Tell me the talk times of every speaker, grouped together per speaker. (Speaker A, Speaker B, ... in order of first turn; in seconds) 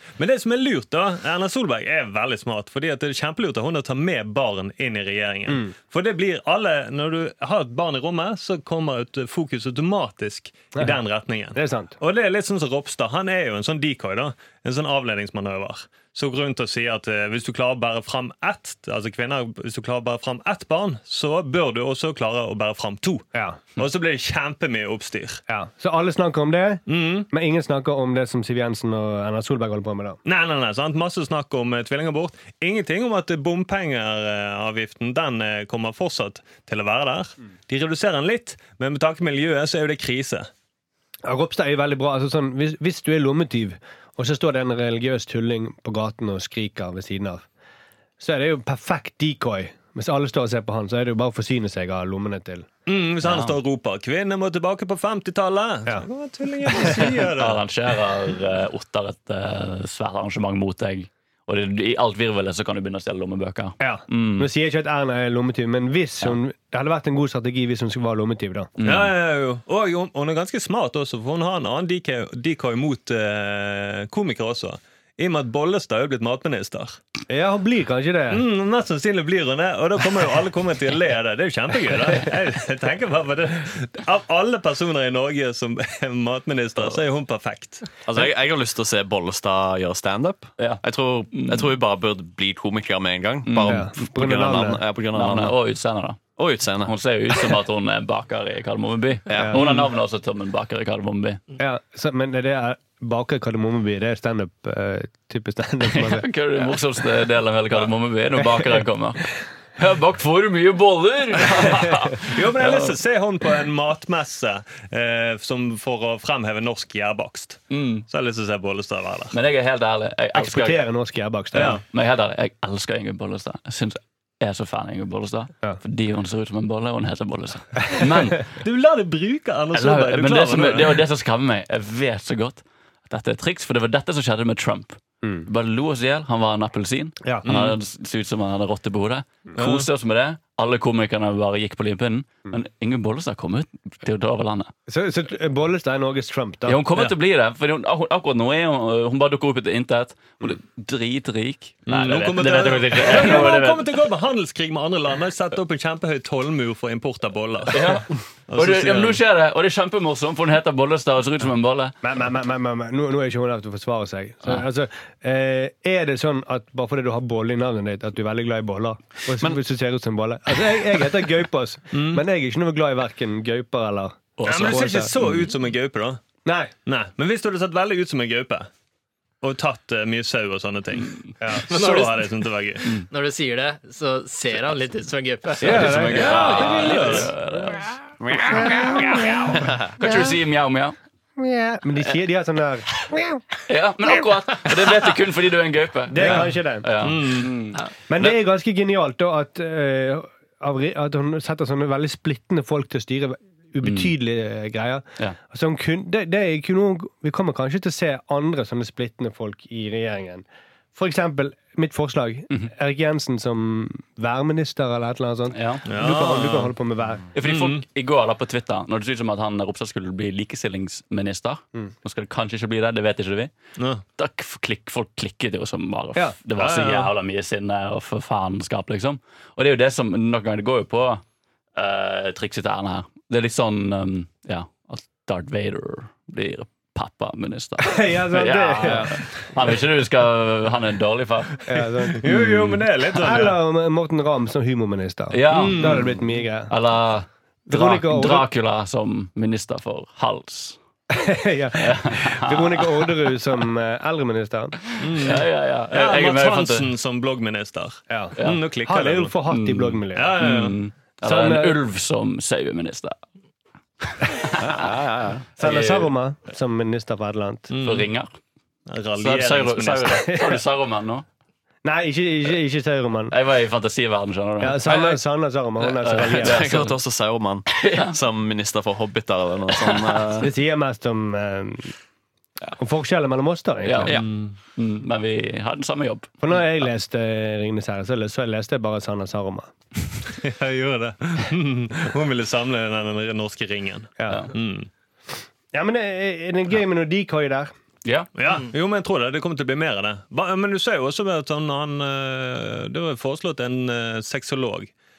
Speaker A: 0.2-25.4, 26.9-27.3, 30.2-40.5, 52.9-57.6, 68.8-77.0, 78.3-87.9, 111.5-119.3, 121.5-121.8, 128.6-131.0, 137.4-137.8, 139.6-139.9, 151.9-159.2, 171.9-172.2, 174.4-176.2, 176.8-178.7, 179.4-182.9, 186.1-187.3, 197.0-197.5, 215.9-216.7, 217.4-217.8, 223.8-224.0, 226.6-227.1, 242.2-243.6, 245.5-246.0, 255.0-259.3, 260.1-260.8, 267.7-268.1, 268.9-270.3, 284.2-284.5, 290.3-294.9, 298.4-304.9
Speaker B: 11.5-11.9, 23.3-23.6, 25.5-30.2, 41.2-47.4, 48.2-52.7, 56.7-57.0, 63.8-68.7, 77.3-78.4, 93.7-94.8, 99.4-99.9, 101.6-106.3, 120.3-121.8, 144.9-146.8, 162.0-175.1, 176.4-176.7, 181.4-182.1, 185.6-187.3, 188.5-190.3, 191.4-193.4, 196.1-196.9, 198.1-217.3, 237.8-239.2, 241.7-246.7, 247.7-248.5, 251.1-254.8, 258.1-260.5, 261.2-261.8, 265.6-267.7, 271.8-273.3, 274.6-276.7, 280.4-281.9, 282.8-284.1, 286.4-289.7, 294.2-294.5, 295.7-297.7
Speaker C: 53.2-53.5, 57.3-64.5, 68.8-69.1, 90.6-91.7, 93.5-93.9, 95.1-96.2, 96.8-101.4, 105.8-112.9, 117.7-118.0, 119.3-120.8, 121.5-128.4, 129.7-144.7, 146.7-153.9, 157.7-161.9, 174.4-174.8, 185.6-190.9, 193.7-197.8, 203.8-204.1, 215.5-215.9, 217.3-223.5, 224.2-231.2, 231.7-241.6, 245.3-250.8, 251.8-253.3, 254.8-256.9, 258.4-258.7, 259.5-263.2, 264.0-264.7, 265.6-266.1, 267.8-268.3, 269.2-271.2, 273.3-275.2, 275.9-276.9, 277.7-278.2, 279.8-280.4, 283.8-286.6
Speaker D: 88.0-95.5, 96.4-96.9, 99.3-99.6, 188.2-188.7, 264.6-265.4, 276.2-280.5
Speaker E: 183.1-186.0